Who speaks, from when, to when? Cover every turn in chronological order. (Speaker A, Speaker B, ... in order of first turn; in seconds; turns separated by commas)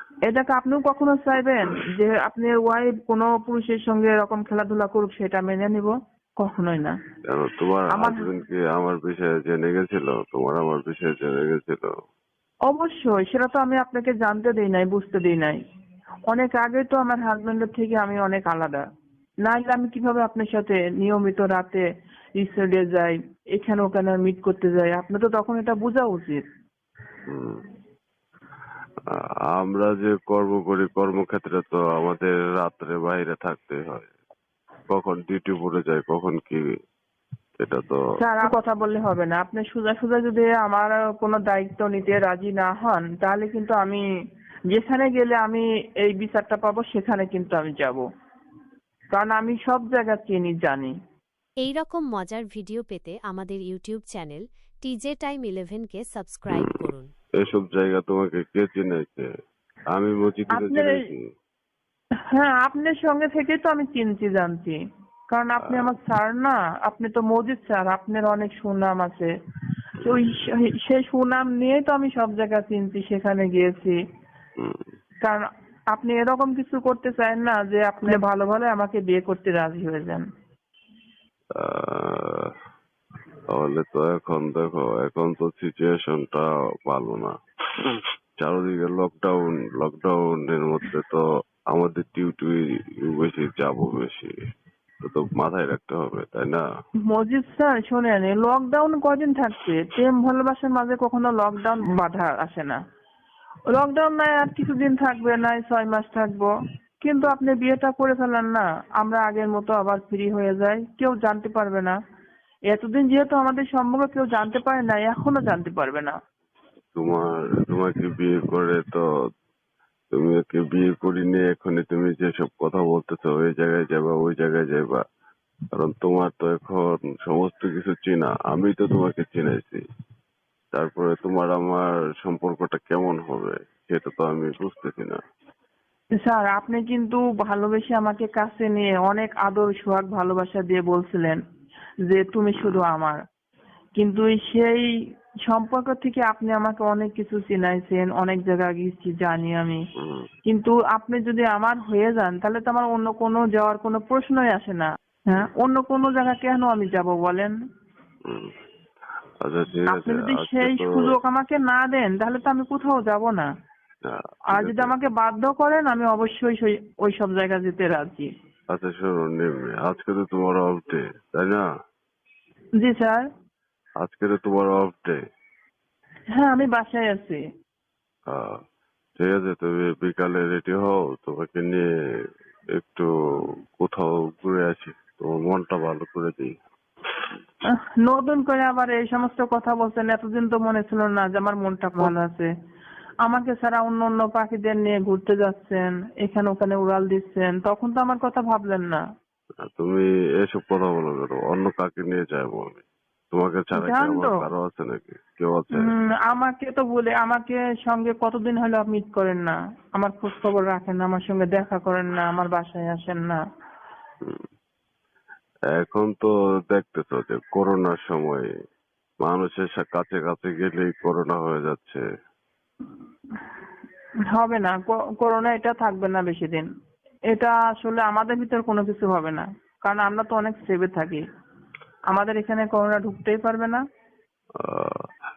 Speaker A: 0.3-7.0, Speaker B: 7.3-11.9, Speaker A: 7.9-8.2, Speaker A: 12.7-15.6, Speaker A: 16.3-18.9, Speaker A: 19.4-21.8, Speaker A: 22.4-26.4, Speaker B: 27.3-27.6, Speaker B: 29.1-34.1, Speaker B: 34.9-36.6, Speaker B: 37.6-38.0, Speaker A: 38.2-44.0, Speaker A: 44.7-48.0, Speaker A: 49.1-50.9, Speaker C: 51.6-57.1, Speaker B: 56.5-56.8, Speaker B: 57.4-59.3, Speaker B: 59.9-61.3, Speaker A: 60.5-60.9, Speaker A: 62.3-64.8, Speaker A: 65.3-69.3, Speaker B: 65.6-65.9, Speaker A: 70.0-74.0, Speaker B: 74.6-74.8, Speaker A: 75.9-80.2, Speaker B: 81.6-82.5, Speaker B: 83.5-87.3, Speaker B: 88.4-94.3, Speaker B: 95.0-96.7, Speaker A: 97.1-102.8, Speaker A: 103.7-106.5, Speaker A: 107.0-112.0, Speaker A: 112.7-116.1, Speaker B: 117.0-119.0, Speaker B: 120.1-125.0, Speaker B: 125.8-129.8, Speaker B: 130.7-135.2, Speaker A: 136.2-141.4, Speaker A: 142.1-143.2, Speaker B: 142.6-142.8, Speaker A: 144.0-144.9, Speaker A: 145.5-149.8, Speaker B: 150.0-150.3, Speaker A: 150.5-157.5, Speaker B: 158.3-158.5, Speaker B: 159.4-161.1, Speaker A: 159.9-163.5, Speaker B: 164.1-164.9, Speaker A: 164.5-168.3, Speaker B: 168.7-171.7, Speaker A: 172.8-173.2, Speaker B: 174.0-175.2, Speaker A: 176.4-177.4, Speaker B: 178.3-178.6, Speaker B: 179.2-181.9, Speaker B: 182.8-183.1, Speaker B: 183.8-186.5, Speaker A: 187.7-192.5, Speaker A: 193.2-199.0, Speaker B: 199.6-205.9, Speaker A: 203.8-204.3, Speaker A: 205.8-213.4, Speaker B: 215.7-218.5, Speaker B: 219.2-222.0, Speaker A: 224.3-226.7, Speaker A: 227.3-231.2, Speaker A: 232.1-233.8, Speaker B: 234.6-235.0